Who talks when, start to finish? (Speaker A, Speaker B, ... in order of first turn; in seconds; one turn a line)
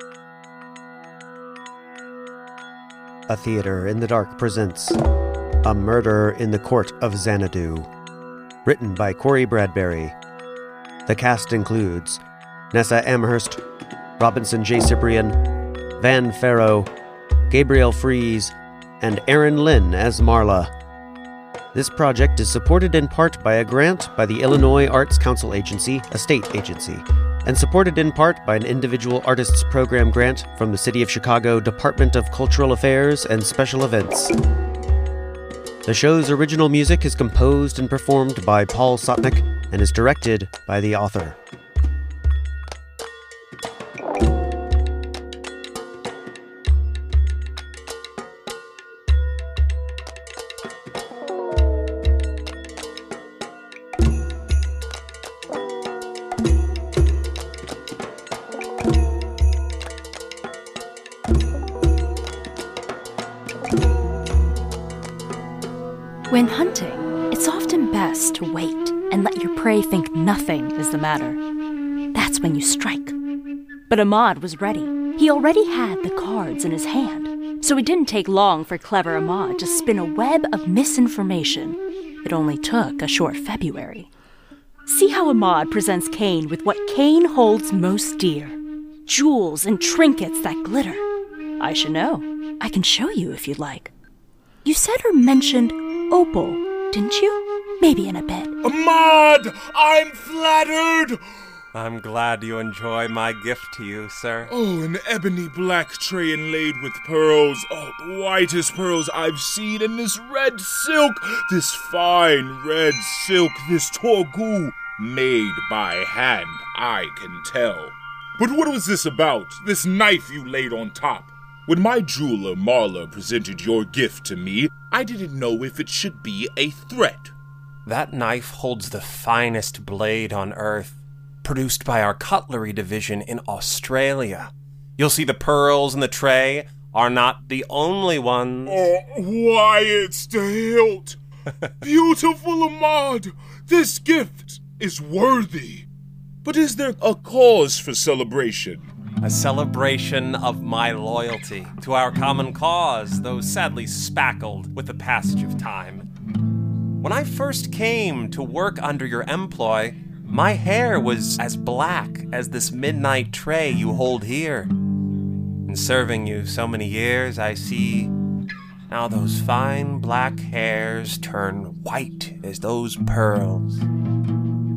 Speaker A: 3.3-5.0
Speaker A: 5.6-7.9
Speaker A: 8.7-10.2
Speaker A: 11.1-12.2
Speaker A: 12.7-13.6
Speaker A: 14.2-15.3
Speaker A: 16.0-16.9
Speaker A: 17.5-20.7
Speaker A: 21.7-34.3
Speaker A: 35.9-41.4
Speaker B: 66.3-71.4
Speaker B: 72.1-73.2
Speaker B: 73.9-84.1
Speaker B: 84.9-91.0
Speaker B: 91.6-93.9
Speaker B: 94.6-98.5
Speaker C: 98.6-101.2
Speaker D: 101.7-104.5
Speaker C: 104.5-127.3
Speaker D: 127.9-138.9
Speaker C: 138.7-141.2
Speaker C: 141.8-145.9
Speaker C: 146.4-148.9
Speaker D: 149.2-156.1
Speaker D: 157.0-164.7
Speaker D: 165.7-168.1
Speaker D: 168.9-173.9